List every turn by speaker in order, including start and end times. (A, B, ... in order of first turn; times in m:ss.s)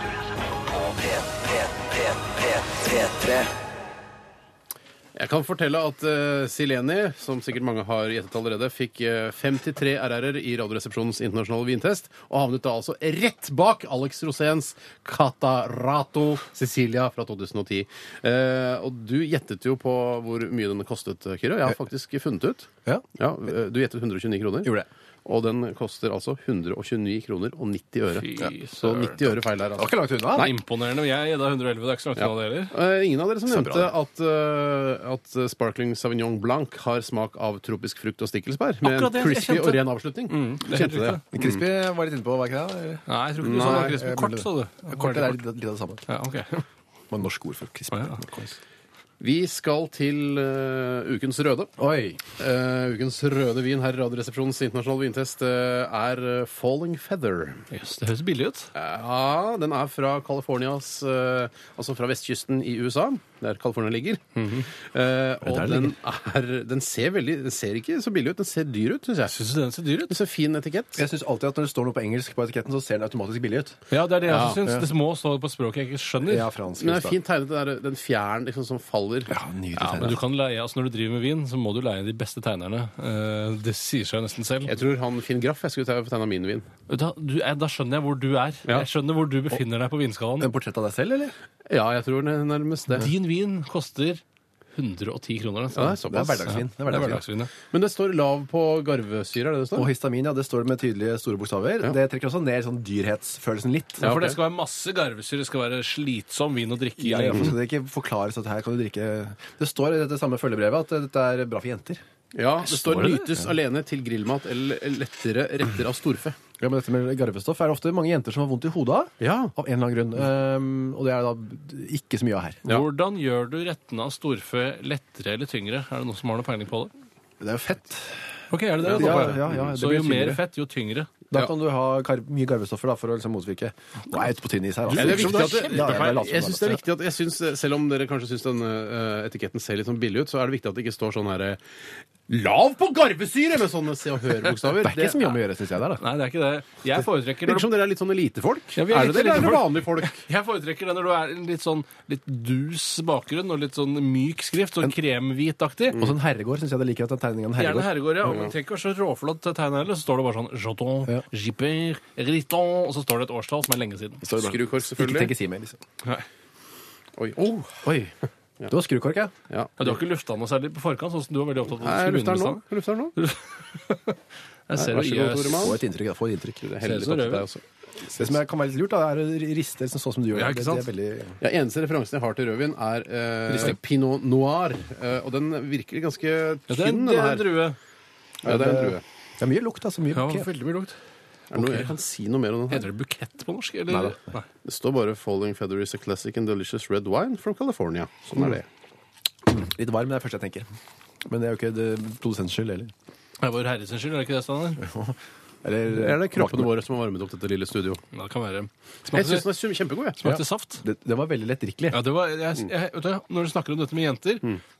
0:00.7-0:03.5 A
0:05.1-0:24.7 B
0:25.2-0:30.5 B
0:28.1-0:29.2 C
0:29.8-0:30.5 D
0:30.3-0:32.7 C
0:32.2-0:41.6 B
0:33.5-0:33.9 D
0:38.8-0:41.2 C
0:41.3-0:46.0 D
0:43.0-0:45.4 C
0:43.4-0:44.0 B
0:46.1-0:46.6 C
0:47.1-0:48.6 D
0:47.9-0:48.2 C
0:49.2-0:51.7 B
0:51.8-0:52.2 D
0:52.4-0:57.6 B
0:57.7-0:58.7 C
0:58.7-1:04.2 B
1:04.4-1:04.7 C
1:04.8-1:09.4 B
1:05.4-1:05.9 D
1:09.3-1:10.1 C
1:10.1-1:11.0 B
1:11.0-1:13.8 D
1:13.9-1:16.5 C
1:14.3-1:14.6 B
1:16.2-1:17.2 D
1:16.8-1:19.3 B
1:19.3-1:20.2 D
1:19.7-1:24.7 C
1:24.7-1:26.7 B
1:26.9-1:30.5 C
1:30.4-1:31.3 D
1:31.7-1:33.1 B
1:32.9-1:34.2 C
1:34.7-1:37.5 C
1:35.7-1:36.4 B
1:36.0-1:37.2 D
1:37.7-1:39.9 B
1:39.7-1:44.1 D
1:44.0-1:44.4 B
1:44.0-1:47.6 C
1:47.0-1:52.0 D
1:52.3-1:56.4 B
1:52.6-1:53.4 C
1:56.6-2:02.6 D
1:59.2-1:59.5 B
2:02.6-2:06.9 C
2:07.4-2:08.3 D
2:08.5-2:11.1 C
2:08.8-2:10.4 D
2:08.9-2:09.6 B
2:11.3-2:16.8 D
2:14.9-2:16.3 C
2:14.9-2:21.6 B
2:22.3-2:25.4 B
2:24.6-2:26.0 D
2:26.0-2:27.7 C
2:27.4-2:30.2 B
2:28.7-2:36.0 C
2:35.9-2:38.0 D
2:37.6-2:44.2 C
2:38.2-2:38.5 B
2:44.2-2:45.8 D
2:44.3-2:45.3 B
2:47.2-2:47.9 B
2:47.8-2:48.1 D
2:48.7-2:49.3 D
2:49.5-2:49.7 B
2:49.8-2:52.6 C
2:51.7-2:53.2 B
2:53.2-2:55.8 C
2:54.8-2:55.8 B
2:55.6-2:56.6 D
2:56.6-2:58.4 B
2:56.8-2:57.5 C
2:58.2-3:01.4 D
3:00.3-3:00.8 C
3:01.4-3:07.5 B
3:06.7-3:07.8 C
3:08.4-3:10.5 D
3:08.4-3:09.0 B
3:10.1-3:10.9 C
3:11.5-3:12.9 B
3:11.6-3:11.9 C
3:12.7-3:14.4 C
3:13.9-3:14.2 D
3:14.6-3:18.6 B
3:19.4-3:20.7 D
3:21.2-3:22.9 D
3:23.4-3:24.8 C
3:24.8-3:26.7 D
3:25.9-3:28.0 B
3:28.1-3:29.5 C
3:29.1-3:30.2 B
3:30.2-3:30.8 C
3:30.2-3:32.0 D
3:31.9-3:34.5 C